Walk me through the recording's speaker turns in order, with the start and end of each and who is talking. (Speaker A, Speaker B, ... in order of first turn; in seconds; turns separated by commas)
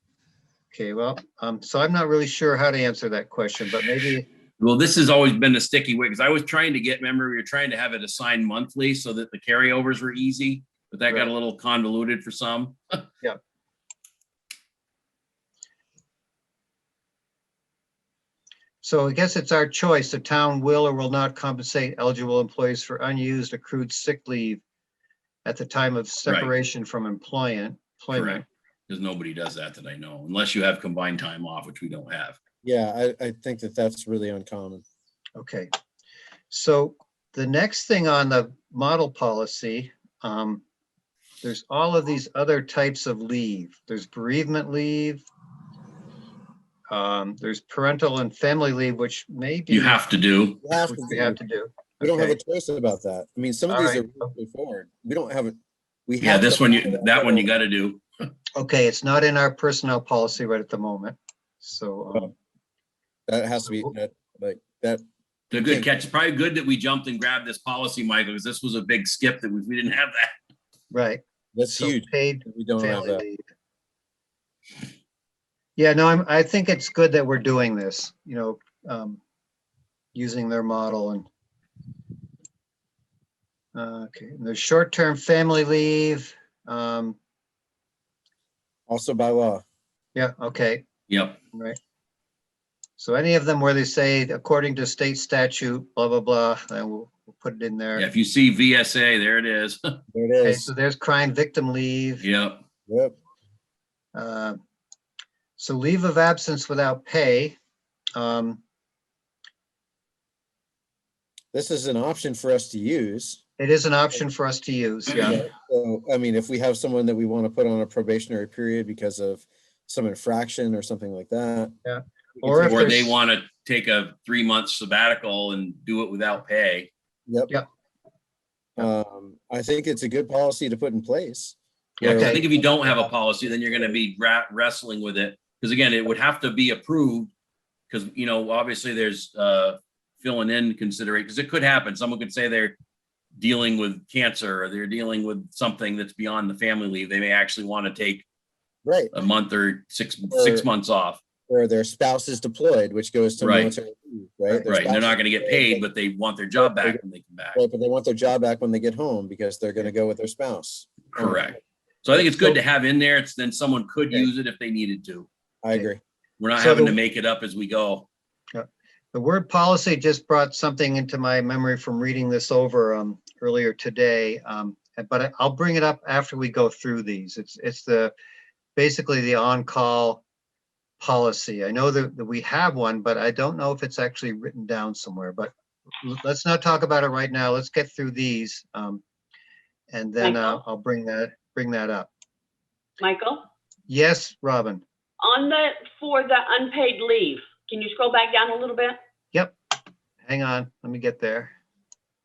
Speaker A: 0.7-4.2, Speaker B: 4.6-13.0, Speaker A: 18.8-24.6, Speaker A: 25.4-28.4, Speaker B: 28.1-32.4, Speaker C: 32.6-34.8, Speaker A: 35.4-35.7, Speaker A: 36.5-40.6, Speaker A: 41.4-45.2, Speaker A: 46.9-50.0, Speaker B: 49.7-50.6, Speaker C: 50.6-51.4, Speaker A: 50.9-52.4, Speaker C: 52.0-57.5, Speaker A: 53.7-54.3, Speaker B: 56.2-58.0, Speaker A: 58.6-62.3, Speaker C: 63.3-65.0, Speaker B: 65.5-70.3, Speaker C: 65.6-65.9, Speaker A: 70.9-73.4, Speaker C: 71.5-73.2, Speaker A: 75.8-79.2, Speaker A: 80.1-81.3, Speaker A: 83.7-87.2, Speaker C: 88.9-89.6, Speaker A: 90.1-90.8, Speaker B: 91.1-91.4, Speaker A: 93.0-98.1, Speaker B: 98.0-100.0, Speaker C: 100.1-100.7, Speaker A: 100.4-102.2, Speaker B: 102.2-102.6, Speaker C: 102.9-103.1, Speaker A: 104.1-104.6, Speaker A: 105.6-107.5, Speaker A: 108.2-108.6, Speaker C: 111.5-113.4, Speaker A: 113.6-115.4, Speaker C: 115.2-121.7, Speaker A: 121.8-123.1, Speaker C: 122.4-123.1, Speaker B: 122.6-126.9, Speaker C: 127.3-127.5, Speaker C: 128.8-134.0, Speaker A: 132.0-132.4, Speaker B: 132.0-137.3, Speaker B: 137.9-142.8, Speaker B: 143.4-148.2, Speaker C: 148.8-149.1, Speaker B: 149.1-151.2, Speaker C: 150.3-150.7, Speaker C: 151.5-155.8, Speaker B: 153.4-153.7, Speaker B: 154.7-157.6, Speaker C: 156.6-157.0, Speaker C: 157.5-161.5, Speaker B: 161.1-165.3, Speaker C: 165.6-166.0, Speaker B: 166.4-168.1, Speaker A: 166.6-167.0, Speaker A: 168.5-178.1, Speaker A: 178.8-180.2, Speaker A: 181.0-189.0, Speaker A: 189.9-192.1, Speaker D: 190.2-190.6, Speaker D: 193.0-193.4, Speaker A: 193.9-194.8, Speaker D: 195.2-198.9, Speaker A: 200.2-201.5